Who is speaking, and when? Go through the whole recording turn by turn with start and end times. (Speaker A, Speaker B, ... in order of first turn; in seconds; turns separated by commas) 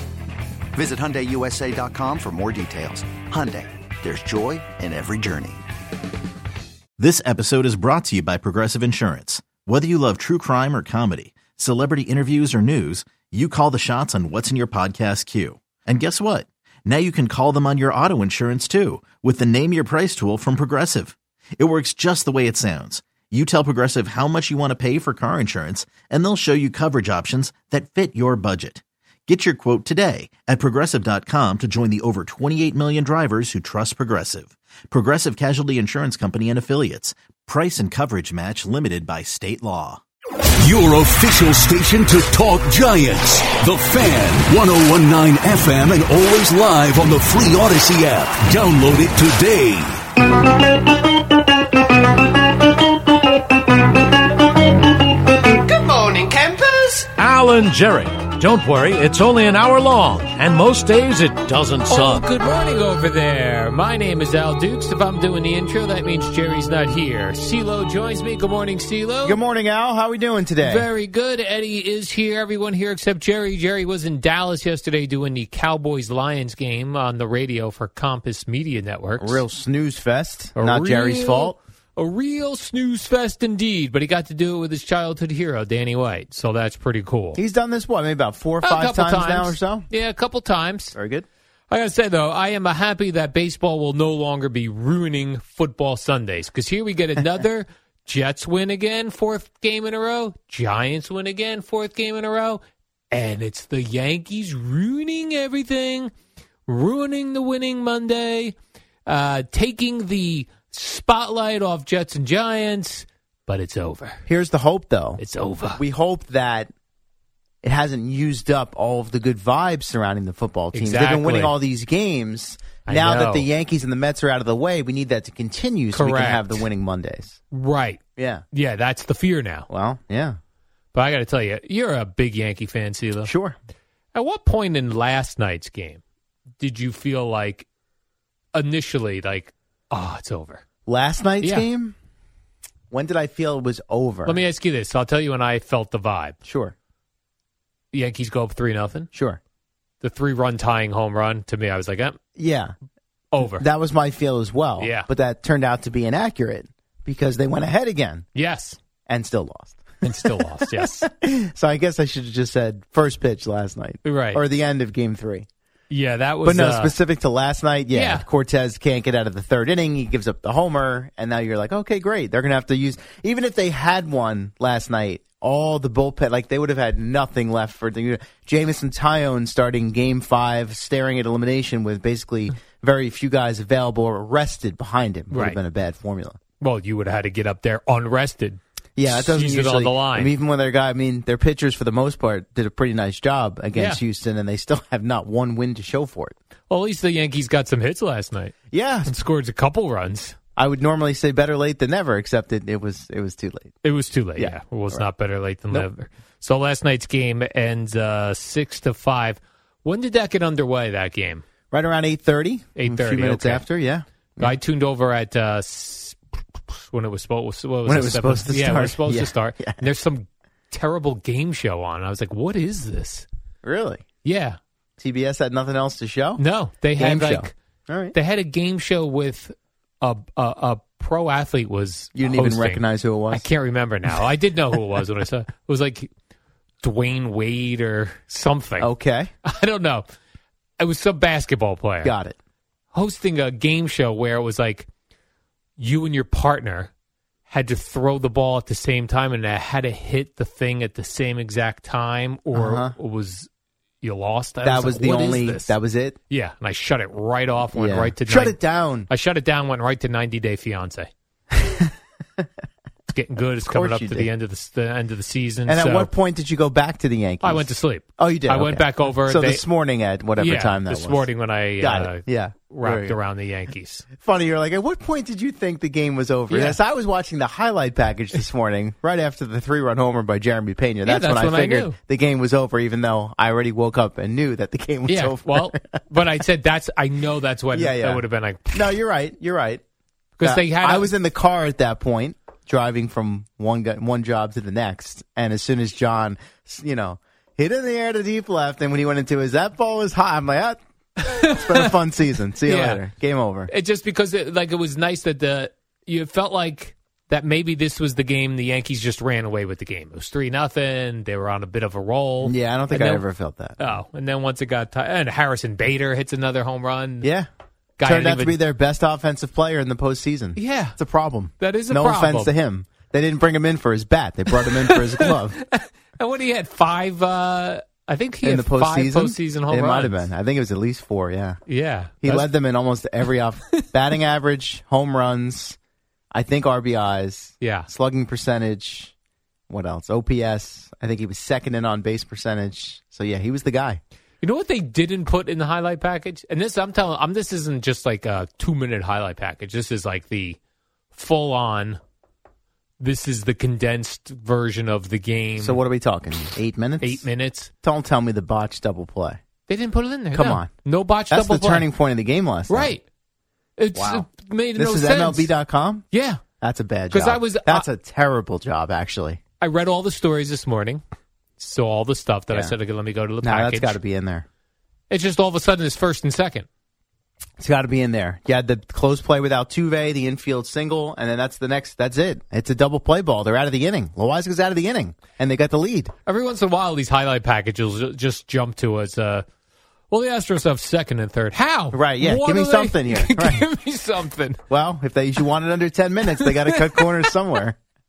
Speaker A: 0.7-5.6, Speaker B: 7.0-40.0, Speaker C: 40.6-50.0, Speaker D: 55.6-62.2, Speaker E: 61.9-69.4, Speaker F: 69.2-70.9, Speaker E: 70.6-79.4, Speaker F: 79.2-81.5, Speaker E: 80.5-87.4, Speaker F: 87.3-89.9, Speaker E: 88.6-91.0, Speaker F: 90.9-91.2, Speaker E: 91.7-106.1, Speaker E: 106.7-114.2, Speaker F: 114.2-115.2, Speaker E: 115.2-115.8, Speaker F: 115.7-116.7, Speaker F: 117.6-127.4, Speaker E: 120.7-121.5, Speaker E: 122.9-123.5, Speaker E: 125.9-126.7, Speaker E: 127.5-128.0, Speaker F: 128.2-128.4, Speaker E: 128.5-129.7, Speaker F: 129.7-130.4, Speaker E: 130.9-133.3, Speaker F: 133.2-133.6, Speaker E: 134.1-136.0, Speaker E: 136.6-137.7, Speaker E: 138.5-140.6, Speaker F: 140.8-141.9, Speaker E: 141.4-141.7, Speaker F: 142.9-144.4, Speaker E: 144.2-146.4, Speaker F: 146.4-146.7, Speaker E: 147.9-149.1, Speaker F: 149.1-149.4, Speaker E: 150.0-152.2, Speaker F: 152.3-152.7, Speaker E: 153.3-153.7, Speaker F: 153.4-158.3, Speaker E: 154.8-155.1, Speaker E: 158.3-158.8, Speaker F: 159.1-165.5, Speaker E: 160.0-161.1, Speaker E: 164.0-164.4, Speaker E: 165.9-166.9, Speaker F: 166.4-186.4, Speaker E: 167.9-168.2, Speaker E: 185.3-185.6, Speaker E: 186.6-190.3, Speaker F: 188.9-196.3, Speaker E: 193.7-194.0, Speaker E: 196.7-200.3, Speaker F: 198.7-199.1, Speaker F: 200.6-203.8, Speaker E: 203.8-211.4, Speaker F: 204.3-205.1, Speaker F: 211.7-214.6, Speaker E: 212.8-213.7, Speaker E: 214.4-223.3, Speaker F: 217.8-219.8, Speaker F: 223.6-224.0, Speaker E: 224.2-224.6, Speaker F: 225.0-226.4, Speaker E: 226.4-227.5, Speaker F: 226.9-228.2, Speaker E: 228.1-236.1, Speaker F: 232.1-233.4, Speaker E: 236.8-238.9, Speaker F: 238.8-239.3, Speaker E: 239.4-240.1, Speaker E: 240.8-242.1, Speaker F: 242.0-242.3, Speaker E: 242.9-244.9, Speaker E: 245.8-246.9, Speaker E: 247.5-253.5, Speaker F: 252.5-252.9, Speaker E: 254.0-255.8, Speaker F: 254.6-256.2, Speaker E: 256.3-261.1, Speaker F: 257.7-259.1, Speaker F: 261.5-262.4, Speaker E: 263.1-266.1, Speaker F: 263.6-264.3, Speaker F: 265.7-273.2, Speaker E: 267.4-269.6, Speaker E: 270.4-274.1, Speaker F: 274.2-286.0, Speaker E: 276.5-276.8, Speaker E: 281.0-282.0, Speaker E: 285.1-288.9, Speaker F: 287.7-289.8, Speaker E: 290.4-291.1, Speaker F: 290.4-300.8, Speaker E: 301.2-301.9, Speaker F: 301.4-303.7, Speaker E: 302.6-303.0, Speaker E: 303.7-313.2, Speaker F: 312.4-313.9, Speaker E: 313.8-317.3, Speaker F: 317.2-317.5, Speaker E: 318.0-318.6, Speaker F: 318.0-325.6, Speaker E: 320.6-321.0, Speaker E: 321.6-322.5, Speaker E: 324.6-330.3, Speaker F: 328.4-331.6, Speaker E: 331.7-332.5, Speaker F: 332.2-335.8, Speaker F: 336.3-339.1, Speaker E: 337.6-337.9, Speaker F: 339.7-344.0, Speaker E: 344.4-350.6, Speaker E: 351.1-352.0, Speaker E: 353.0-355.8, Speaker F: 355.6-357.3, Speaker E: 357.0-357.7, Speaker F: 357.8-359.4, Speaker E: 359.7-361.9, Speaker F: 360.3-360.7, Speaker F: 361.3-362.9, Speaker E: 362.7-363.0, Speaker E: 363.8-365.5, Speaker F: 363.9-366.1, Speaker E: 366.1-366.4, Speaker F: 366.6-369.4, Speaker E: 367.1-367.9, Speaker E: 369.6-371.0, Speaker E: 371.6-374.0, Speaker F: 372.5-372.8, Speaker F: 373.4-374.4, Speaker E: 375.1-376.7, Speaker F: 377.6-386.1, Speaker E: 386.2-389.4, Speaker E: 390.1-394.6, Speaker F: 391.9-393.6, Speaker F: 394.7-397.8, Speaker E: 396.4-397.3